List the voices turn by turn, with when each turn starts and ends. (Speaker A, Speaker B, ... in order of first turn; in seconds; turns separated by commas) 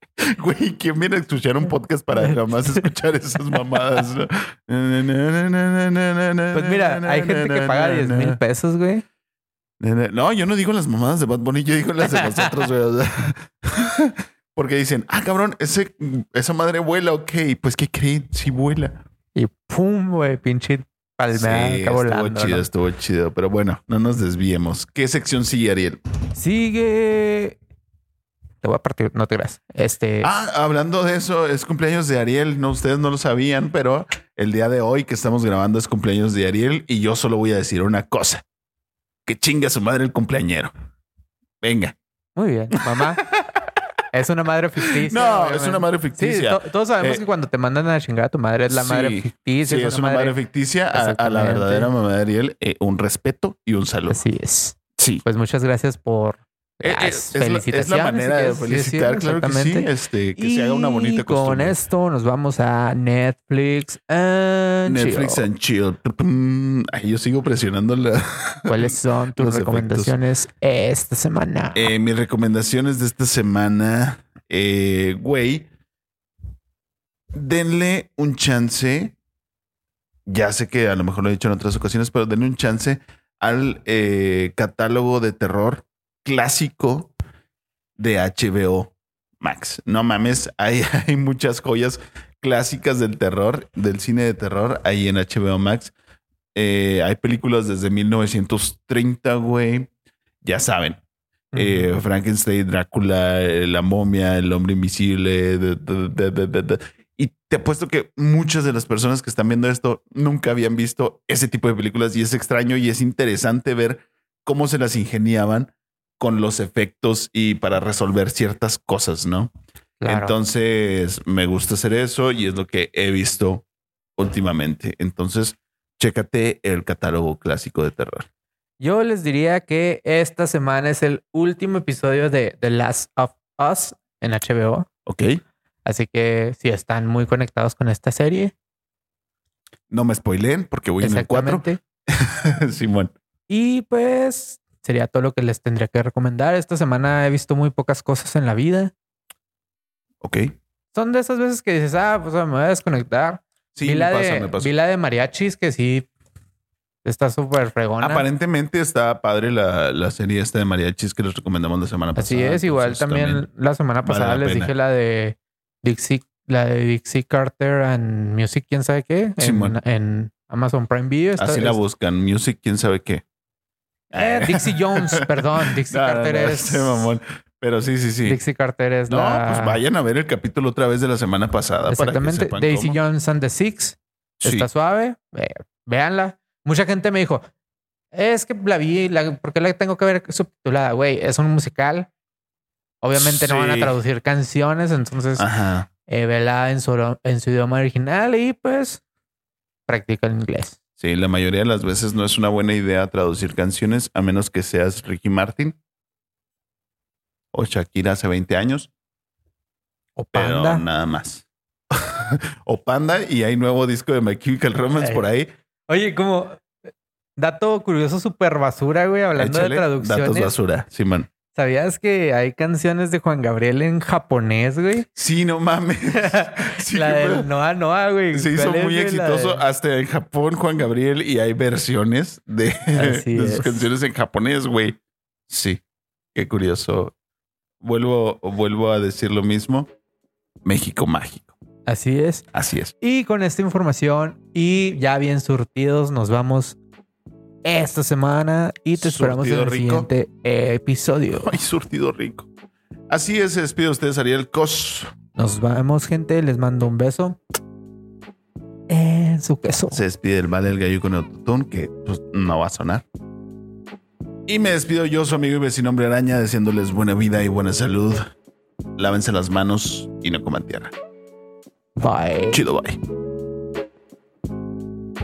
Speaker A: 0.2-8.4, Speaker B: 2.3-2.9, Speaker B: 6.5-9.0, Speaker A: 9.8-19.0, Speaker B: 12.1-12.5, Speaker B: 19.4-22.6, Speaker A: 21.3-26.0, Speaker B: 26.4-27.6, Speaker B: 28.6-30.3, Speaker A: 30.2-38.4, Speaker A: 39.3-40.7, Speaker A: 41.6-42.0, Speaker B: 42.4-43.2, Speaker A: 42.9-43.8, Speaker B: 44.1-50.4, Speaker A: 44.8-47.2, Speaker A: 48.7-54.2, Speaker B: 50.9-51.9, Speaker B: 54.1-65.4, Speaker A: 55.0-55.2, Speaker A: 56.8-61.8, Speaker A: 64.9-70.2, Speaker B: 68.7-71.9, Speaker A: 71.7-75.7, Speaker A: 77.3-79.2, Speaker A: 80.3-87.1, Speaker A: 88.0-95.9, Speaker A: 96.5-99.9, Speaker A: 100.4-101.0, Speaker B: 101.5-101.9, Speaker A: 101.5-119.5, Speaker B: 120.0-120.4, Speaker A: 120.1-123.6, Speaker A: 124.2-128.3, Speaker B: 128.8-134.9, Speaker A: 135.1-135.4, Speaker B: 135.8-138.5, Speaker A: 139.9-143.1, Speaker B: 141.0-141.8, Speaker B: 143.5-148.9, Speaker A: 150.2-150.5, Speaker B: 150.9-156.1, Speaker A: 153.7-154.7, Speaker B: 157.1-158.3, Speaker A: 158.0-163.4, Speaker B: 162.2-171.8, Speaker A: 164.0-164.7, Speaker A: 169.4-169.8, Speaker A: 171.4-173.2, Speaker B: 174.1-177.1, Speaker A: 174.1-178.4, Speaker B: 178.2-179.8, Speaker A: 179.1-183.0, Speaker B: 181.9-187.4, Speaker A: 184.4-184.7, Speaker B: 188.1-192.1, Speaker B: 193.0-195.4, Speaker A: 193.1-193.9, Speaker A: 195.4-195.9, Speaker B: 196.1-199.0, Speaker B: 199.9-200.8, Speaker A: 201.0-205.8, Speaker A: 207.5-208.9, Speaker B: 210.2-210.8, Speaker A: 210.3-215.5, Speaker B: 215.0-215.3, Speaker B: 215.9-216.7, Speaker B: 217.4-220.6, Speaker A: 219.3-221.3, Speaker B: 221.5-225.1, Speaker A: 225.2-227.5, Speaker B: 226.2-229.6, Speaker A: 228.3-235.8, Speaker B: 232.9-233.9, Speaker A: 236.3-237.1, Speaker A: 237.8-239.9, Speaker A: 240.6-241.6, Speaker B: 241.9-242.4, Speaker A: 242.5-242.9, Speaker B: 243.0-246.8, Speaker B: 247.6-251.6, Speaker A: 249.0-250.1, Speaker A: 251.3-252.5, Speaker A: 253.1-255.1, Speaker B: 255.4-257.4, Speaker B: 258.9-260.0, Speaker A: 259.9-263.1, Speaker A: 264.5-268.3, Speaker A: 269.0-270.9, Speaker B: 272.0-272.6, Speaker A: 272.5-273.0